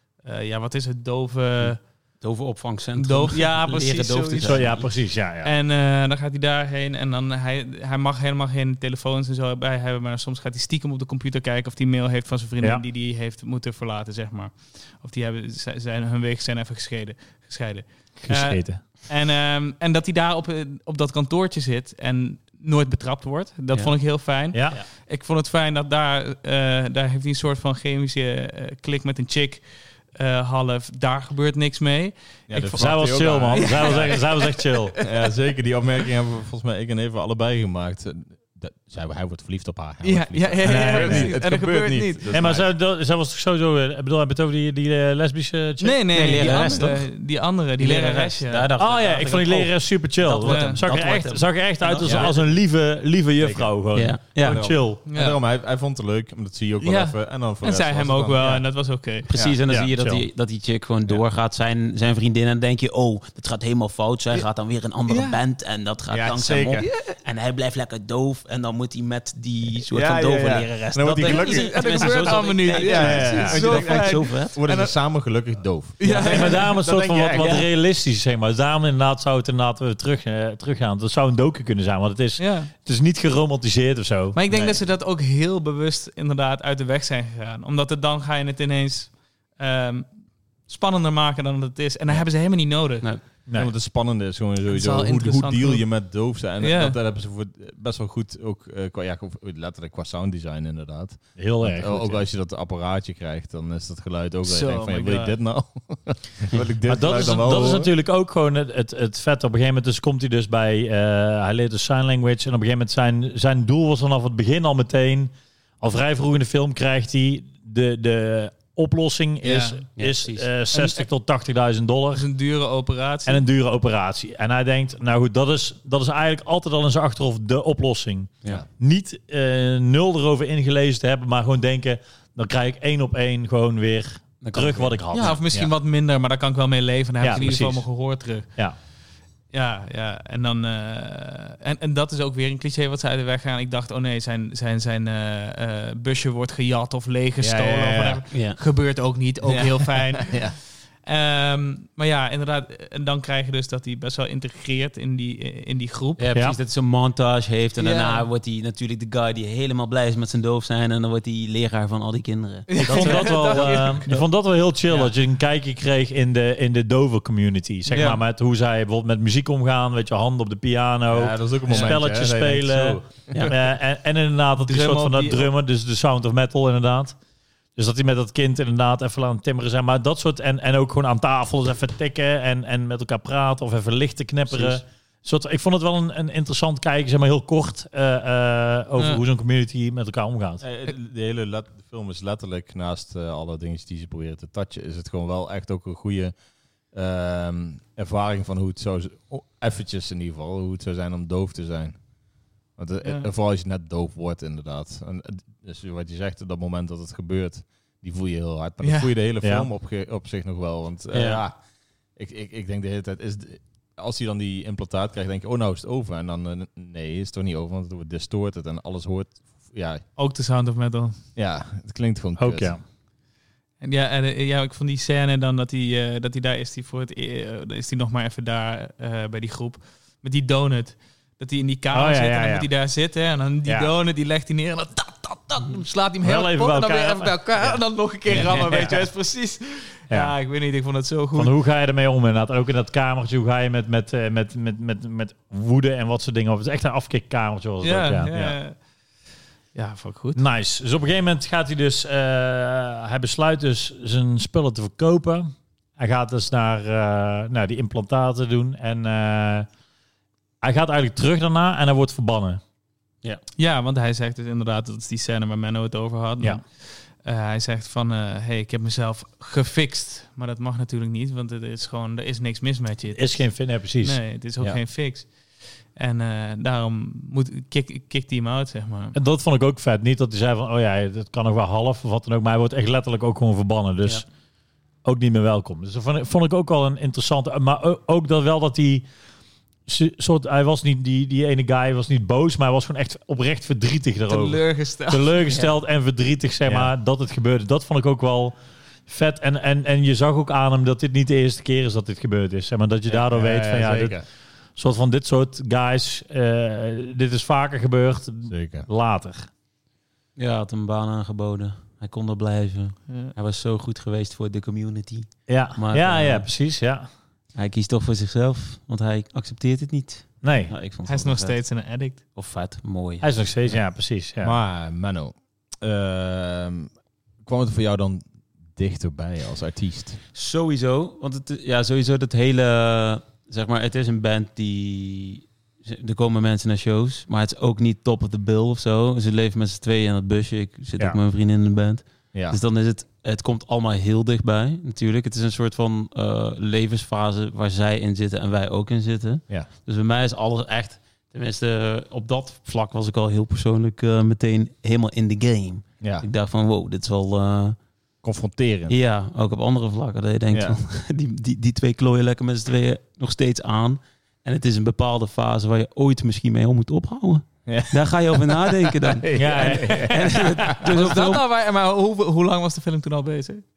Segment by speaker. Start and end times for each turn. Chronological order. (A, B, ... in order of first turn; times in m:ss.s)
0:00.2-0:01.8 A
0:01.6-0:04.9 B
0:03.0-0:35.0 A
0:04.4-0:05.5 C
0:18.2-0:18.8 C
0:24.5-0:24.8 C
0:32.5-0:34.2 D
0:32.7-0:35.0 C
0:35.0-0:42.7 D
0:40.0-0:42.2 A
0:40.6-0:41.3 C
0:42.3-0:46.8 C
0:45.8-0:48.7 A
0:46.1-0:47.1 B
0:47.8-0:52.3 B
0:48.8-0:55.0 C
0:50.4-0:50.8 A
0:52.0-0:52.6 D
0:53.4-0:53.7 D
0:53.9-0:54.7 B
0:54.3-0:58.7 D
0:55.0-0:55.4 A
0:56.8-0:59.3 A
0:59.3-1:14.6 B
0:59.3-0:59.6 D
0:59.7-1:00.2 C
1:05.1-1:05.4 A
1:06.1-1:06.9 D
1:06.8-1:07.2 A
1:09.9-1:17.6 D
1:11.2-1:15.0 A
1:16.0-1:16.7 A
1:16.1-1:24.4 C
1:22.4-1:22.7 A
1:24.3-1:30.1 A
1:24.5-1:24.8 D
1:30.6-1:33.1 A
1:33.5-1:47.9 D
1:34.7-1:37.0 A
1:41.4-1:42.3 C
1:44.4-1:45.4 A
1:46.8-2:02.2 C
1:59.4-1:59.8 A
2:00.0-2:00.5 B
2:00.7-2:01.0 A
2:02.1-2:03.4 A
2:03.2-2:15.6 C
2:14.4-2:15.4 B
2:15.1-2:18.5 A
2:17.2-2:17.9 C
2:19.5-2:36.2 A
2:27.4-2:28.2 D
2:28.3-2:28.6 B
2:29.5-2:30.5 D
2:36.2-2:44.2 B
2:37.8-2:38.2 A
2:42.7-2:44.0 A
2:42.8-2:57.2 C
2:47.9-2:48.2 B
2:51.1-2:53.5 D
2:54.6-2:55.5 A
2:57.8-3:10.6 C
3:04.5-3:04.8 B
3:09.0-3:09.2 A
3:10.6-3:22.1 D
3:22.7-3:31.6 D
3:23.0-3:23.3 A
3:28.8-3:29.1 A
3:29.4-3:29.7 C
3:31.1-3:31.4 B
3:32.1-3:40.0 D
3:40.2-3:41.2 A
3:41.3-3:42.8 D
3:42.4-3:42.8 C
3:43.8-4:01.5 A
3:51.9-3:52.7 C
3:53.6-3:53.9 C
3:56.2-3:57.8 C
3:58.3-3:59.0 C
4:01.4-4:08.3 C
4:07.8-4:08.8 A
4:08.3-4:08.6 D
4:09.7-4:10.4 A
4:10.3-4:19.7 C
4:20.6-4:22.6 C
4:23.6-4:39.1 A
4:33.1-4:34.2 C
4:39.1-4:44.2 C
4:45.0-4:49.1 C
4:49.9-4:58.5 C
4:54.3-4:55.4 A
4:56.6-4:56.9 D
4:59.1-5:04.2 C
5:03.1-5:04.2 D
5:04.8-5:09.5 C
5:08.5-5:08.9 D
5:10.4-5:16.5 B
5:13.1-5:13.3 A
5:15.5-5:17.1 C
5:17.5-5:21.7 B
5:20.4-5:20.7 C
5:21.0-5:22.2 A
5:22.3-5:23.3 B
5:23.2-5:24.5 C
5:24.4-5:30.2 D
5:30.3-5:57.8 B
5:42.3-5:42.6 D
5:58.2-5:59.0 D
5:58.9-6:11.4 B
6:00.5-6:00.8 D
6:07.6-6:10.7 D
6:09.4-6:10.5 C
6:10.8-6:13.6 A